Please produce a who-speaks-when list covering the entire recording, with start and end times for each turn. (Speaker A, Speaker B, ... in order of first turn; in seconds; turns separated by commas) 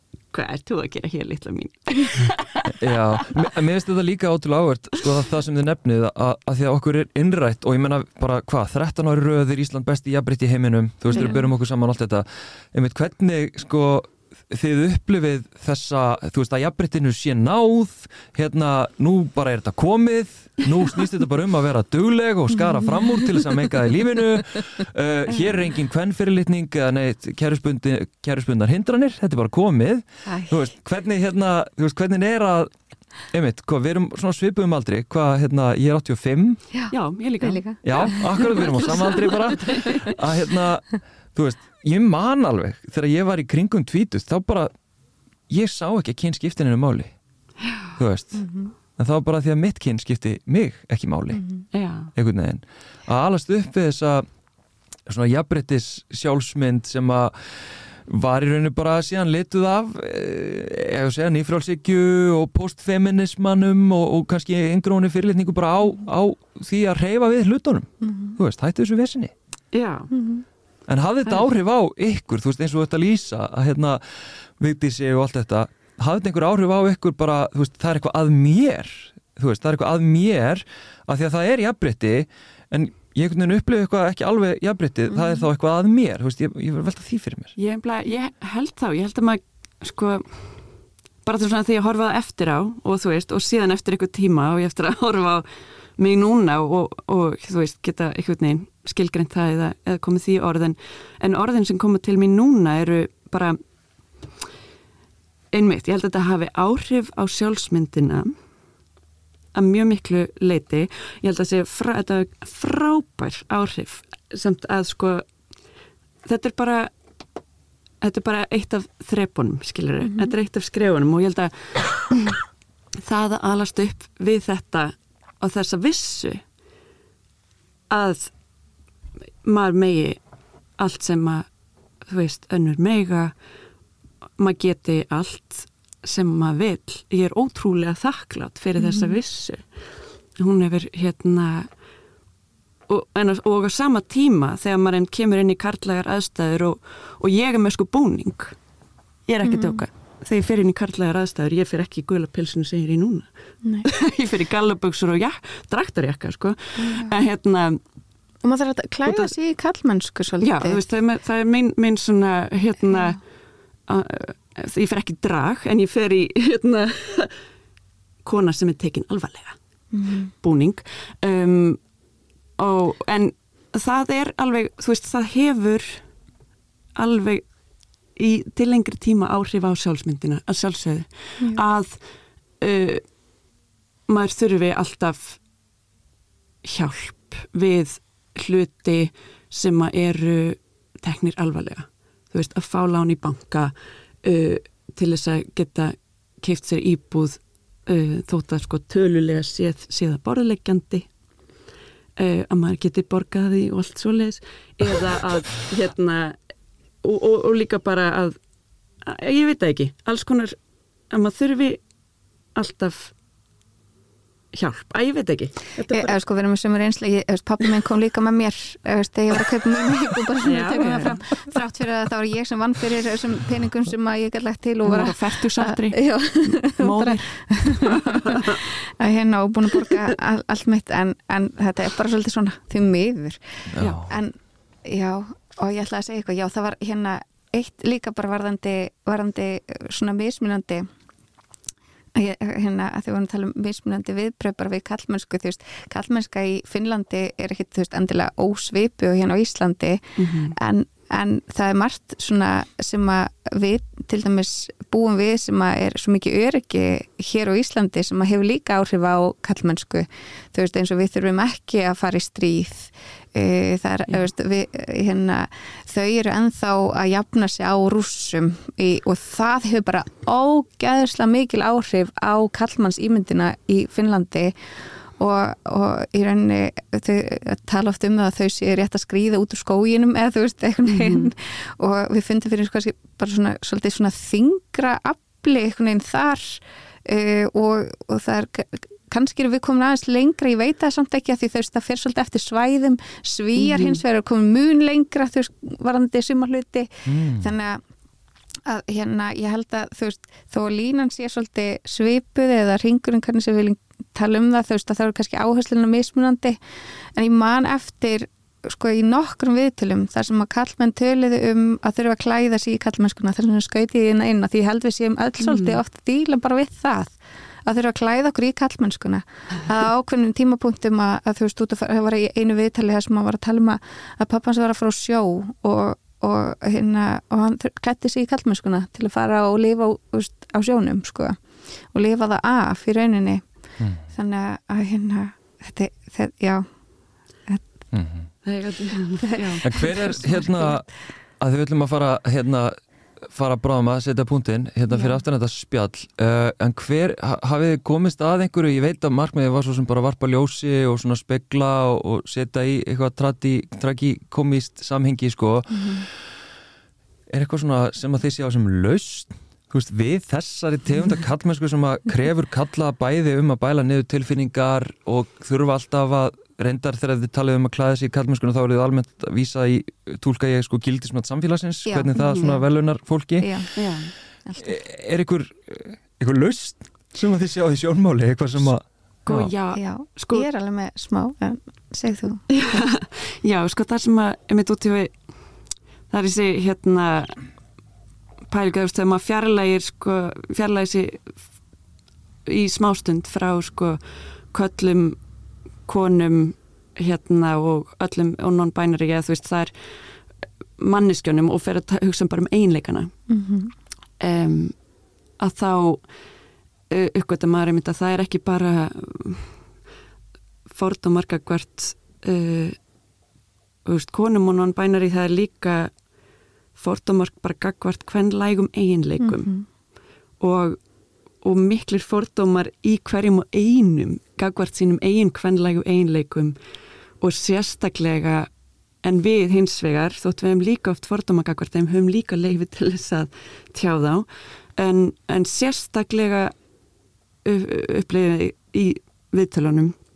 Speaker A: 0.3-3.2, Speaker B: 2.7-32.7, Speaker A: 11.1-11.4, Speaker C: 30.3-30.6, Speaker B: 33.3-36.6, Speaker C: 36.7-39.0, Speaker A: 36.9-40.1, Speaker B: 37.8-44.7, Speaker B: 45.5-47.1, Speaker B: 48.0-48.5, Speaker C: 48.3-48.7, Speaker B: 49.0-51.4, Speaker C: 51.3-51.6, Speaker A: 51.7-52.1, Speaker B: 52.1-54.3, Speaker B: 55.1-57.4, Speaker B: 58.1-69.3, Speaker C: 68.0-68.4, Speaker A: 69.7-70.1, Speaker C: 70.1-70.5, Speaker B: 70.9-74.0, Speaker B: 74.6-87.5, Speaker C: 85.1-85.5, Speaker A: 87.6-90.5, Speaker A: 91.2-95.5, Speaker A: 96.0-103.6, Speaker A: 105.5-108.3, Speaker A: 109.5-115.3, Speaker A: 116.2-116.9, Speaker A: 118.0-122.4, Speaker C: 120.0-120.3, Speaker A: 123.0-126.4, Speaker A: 127.9-128.3, Speaker A: 129.4-130.2, Speaker A: 130.8-131.5, Speaker A: 132.1-133.3, Speaker A: 134.4-139.7, Speaker C: 138.8-139.2, Speaker A: 140.4-141.7, Speaker A: 142.9-148.6, Speaker A: 149.3-153.3, Speaker C: 149.4-149.8, Speaker A: 153.8-157.8, Speaker C: 156.8-157.2, Speaker C: 158.4-160.8, Speaker A: 159.1-159.3, Speaker A: 160.4-163.2, Speaker C: 162.9-163.2, Speaker A: 163.9-167.3, Speaker A: 168.2-169.6, Speaker C: 169.9-170.3, Speaker A: 170.4-171.8, Speaker A: 172.6-176.1, Speaker A: 177.0-177.4, Speaker A: 178.2-181.9, Speaker A: 182.6-183.0, Speaker A: 184.1-185.4, Speaker A: 186.6-201.1, Speaker A: 202.2-206.4, Speaker A: 207.0-208.4, Speaker A: 209.0-210.6, Speaker A: 211.1-211.8, Speaker A: 212.6-213.1, Speaker A: 214.5-216.2, Speaker C: 215.9-233.4, Speaker A: 220.4-221.3, Speaker A: 224.8-228.6, Speaker B: 233.7-234.1, Speaker A: 233.8-234.0, Speaker C: 234.0-240.9, Speaker C: 242.1-274.5, Speaker A: 250.2-250.6, Speaker C: 275.2-297.8, Speaker A: 280.9-281.3, Speaker A: 293.6-294.0, Speaker B: 297.1-297.5, Speaker C: 298.7-306.6, Speaker C: 307.1-331.4, Speaker A: 315.4-315.8, Speaker C: 331.9-333.4, Speaker C: 334.1-336.7, Speaker B: 337.9-338.3, Speaker A: 338.4-339.9, Speaker C: 339.2-340.7, Speaker B: 339.6-340.9, Speaker B: 341.4-342.8, Speaker B: 343.3-356.0, Speaker C: 344.9-345.2, Speaker C: 355.7-356.1, Speaker B: 357.3-373.7, Speaker C: 371.9-372.6, Speaker A: 372.3-372.6, Speaker C: 373.4-373.7, Speaker A: 373.8-374.1, Speaker C: 374.4-374.7, Speaker B: 374.6-379.5, Speaker A: 379.3-380.5, Speaker C: 379.7-382.4, Speaker A: 382.5-385.1, Speaker A: 386.1-387.4, Speaker A: 388.5-391.4, Speaker A: 392.5-394.0, Speaker A: 394.5-395.2, Speaker A: 395.9-399.7, Speaker A: 400.8-403.1, Speaker C: 403.3-403.7, Speaker A: 404.2-404.8, Speaker A: 405.4-406.1, Speaker A: 406.9-409.5, Speaker A: 410.7-412.8, Speaker A: 413.9-415.9, Speaker A: 416.8-419.5, Speaker C: 419.2-419.6, Speaker A: 420.4-420.8, Speaker A: 421.4-426.6, Speaker A: 427.2-428.5, Speaker A: 429.0-436.5, Speaker A: 437.4-439.9